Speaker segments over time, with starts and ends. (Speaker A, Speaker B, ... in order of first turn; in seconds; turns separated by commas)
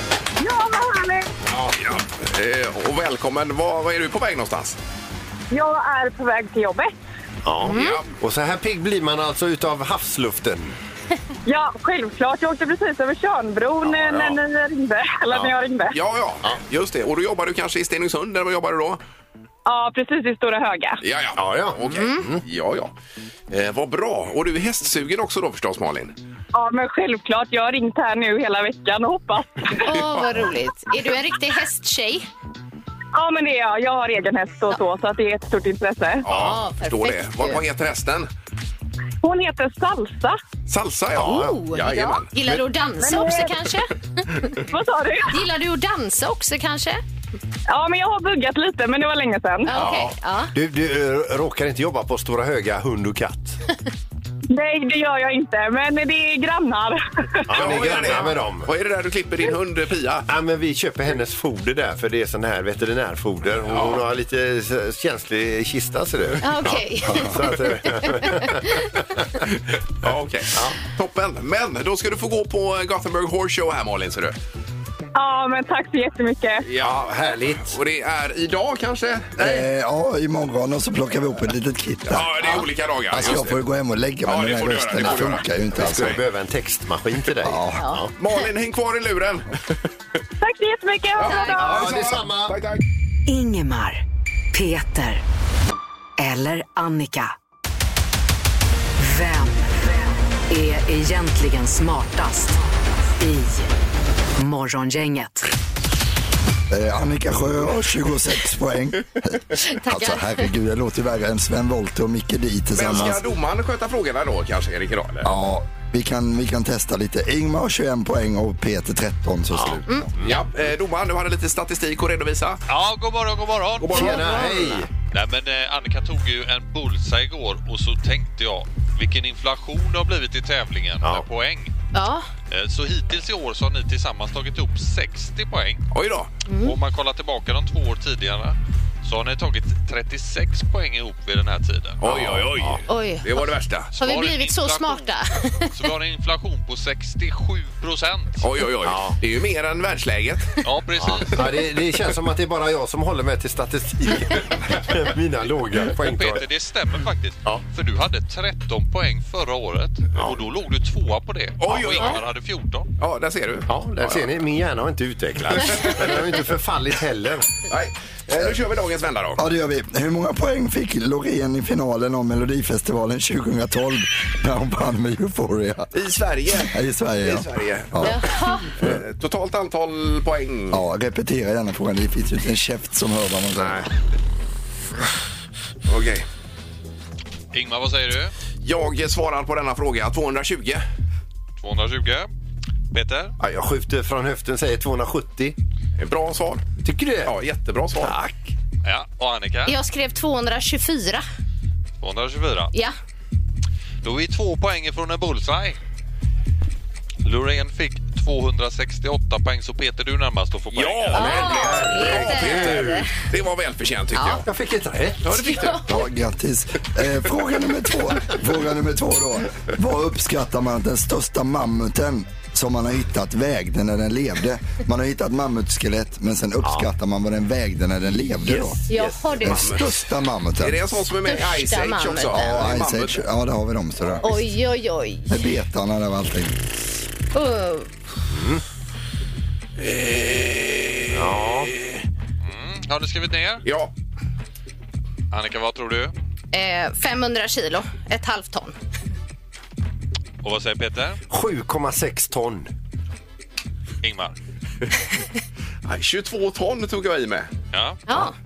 Speaker A: 0.4-1.3, Speaker B: 1.5-1.8, Speaker C: 1.8-4.8, Speaker A: 5.5-7.0, Speaker B: 7.5-10.7, Speaker D: 7.6-8.0, Speaker C: 7.7-8.1, Speaker A: 11.5-16.0, Speaker C: 13.9-14.4, Speaker C: 15.3-19.0, Speaker A: 19.7-21.0, Speaker C: 21.0-22.9, Speaker B: 21.4-22.4, Speaker D: 21.9-22.2, Speaker C: 23.5-26.1, Speaker A: 26.5-29.9, Speaker D: 29.8-32.3, Speaker A: 33.1-36.2, Speaker C: 36.2-38.3, Speaker D: 36.3-37.6, Speaker B: 36.3-36.6, Speaker A: 39.2-40.4, Speaker C: 40.7-42.3, Speaker B: 41.1-41.6, Speaker D: 41.2-44.5, Speaker A: 43.0-43.6, Speaker A: 44.7-45.4, Speaker D: 45.3-47.0, Speaker A: 47.7-49.8, Speaker D: 49.6-50.5, Speaker B: 49.7-53.6, Speaker A: 54.5-57.5, Speaker B: 57.5-58.7, Speaker C: 57.5-60.3, Speaker B: 60.3-69.5, Speaker C: 63.7-64.0, Speaker D: 66.4-68.9, Speaker C: 70.0-74.4, Speaker B: 70.0-70.8, Speaker A: 75.2-76.7, Speaker C: 76.7-77.1, Speaker B: 76.8-77.8, Speaker C: 77.7-79.7, Speaker E: 79.4-86.2, Speaker C: 82.1-83.6, Speaker C: 84.3-86.2, Speaker B: 85.7-88.1, Speaker E: 87.4-87.8, Speaker C: 88.2-89.8, Speaker A: 90.4-91.9, Speaker C: 91.2-92.8, Speaker D: 91.2-91.6, Speaker B: 91.6-92.6, Speaker F: 93.3-95.2, Speaker F: 96.2-97.3, Speaker F: 99.0-100.0, Speaker F: 100.5-102.6, Speaker F: 103.2-103.7, Speaker F: 104.4-105.5, Speaker E: 106.7-113.2, Speaker D: 109.5-110.5, Speaker C: 112.7-115.3, Speaker E: 115.2-120.1, Speaker B: 119.5-120.4, Speaker C: 120.2-122.6, Speaker G: 122.7-124.4, Speaker C: 123.9-124.2, Speaker B: 123.9-124.9, Speaker D: 123.9-124.8, Speaker G: 125.0-131.7, Speaker B: 131.0-131.3, Speaker D: 131.9-132.3, Speaker G: 132.5-135.8, Speaker C: 135.9-136.3, Speaker D: 136.5-136.8, Speaker G: 136.6-142.0, Speaker C: 142.0-143.9, Speaker B: 142.0-142.8, Speaker D: 142.9-143.4, Speaker G: 143.9-145.1, Speaker D: 143.9-145.9, Speaker G: 145.6-148.5, Speaker C: 148.4-150.6, Speaker B: 148.8-149.2, Speaker G: 150.6-151.6, Speaker B: 151.0-156.5, Speaker G: 155.9-162.9, Speaker B: 160.2-160.4, Speaker C: 161.6-162.2, Speaker C: 163.0-164.3, Speaker B: 163.7-167.5, Speaker C: 165.6-166.2, Speaker C: 167.7-169.4, Speaker E: 169.4-175.9, Speaker C: 175.9-178.2, Speaker E: 176.5-178.2, Speaker D: 178.0-178.7, Speaker C: 178.8-180.8, Speaker E: 180.7-183.9, Speaker C: 185.9-186.3, Speaker G: 187.5-188.3, Speaker C: 188.6-190.8, Speaker G: 191.6-192.3, Speaker G: 192.9-193.3, Speaker B: 193.4-195.6, Speaker C: 196.0-196.6, Speaker B: 196.8-197.3, Speaker C: 197.2-198.2, Speaker B: 198.0-198.5, Speaker G: 198.8-199.8, Speaker D: 199.7-201.2, Speaker G: 202.0-202.7, Speaker G: 204.0-205.8, Speaker G: 207.2-211.8, Speaker C: 210.7-214.4, Speaker D: 211.1-213.1, Speaker B: 211.2-213.1, Speaker D: 214.1-214.4, Speaker B: 214.2-215.3, Speaker C: 215.2-215.8, Speaker D: 215.3-216.0, Speaker E: 215.9-228.8, Speaker B: 228.6-229.2, Speaker D: 228.9-229.7, Speaker C: 229.4-229.9, Speaker E: 229.4-231.1, Speaker C: 230.6-233.2, Speaker D: 231.2-232.6, Speaker E: 232.3-234.3, Speaker D: 234.2-235.4, Speaker E: 235.3-236.6, Speaker D: 237.3-237.9, Speaker B: 238.3-238.6, Speaker C: 239.8-242.0, Speaker B: 241.1-241.7, Speaker G: 242.4-243.6, Speaker C: 243.7-243.9, Speaker G: 245.3-246.1, Speaker D: 246.5-248.8, Speaker G: 250.4-251.2, Speaker B: 251.3-252.7, Speaker G: 254.0-254.4, Speaker C: 255.8-257.5, Speaker G: 257.7-258.0, Speaker D: 258.1-258.4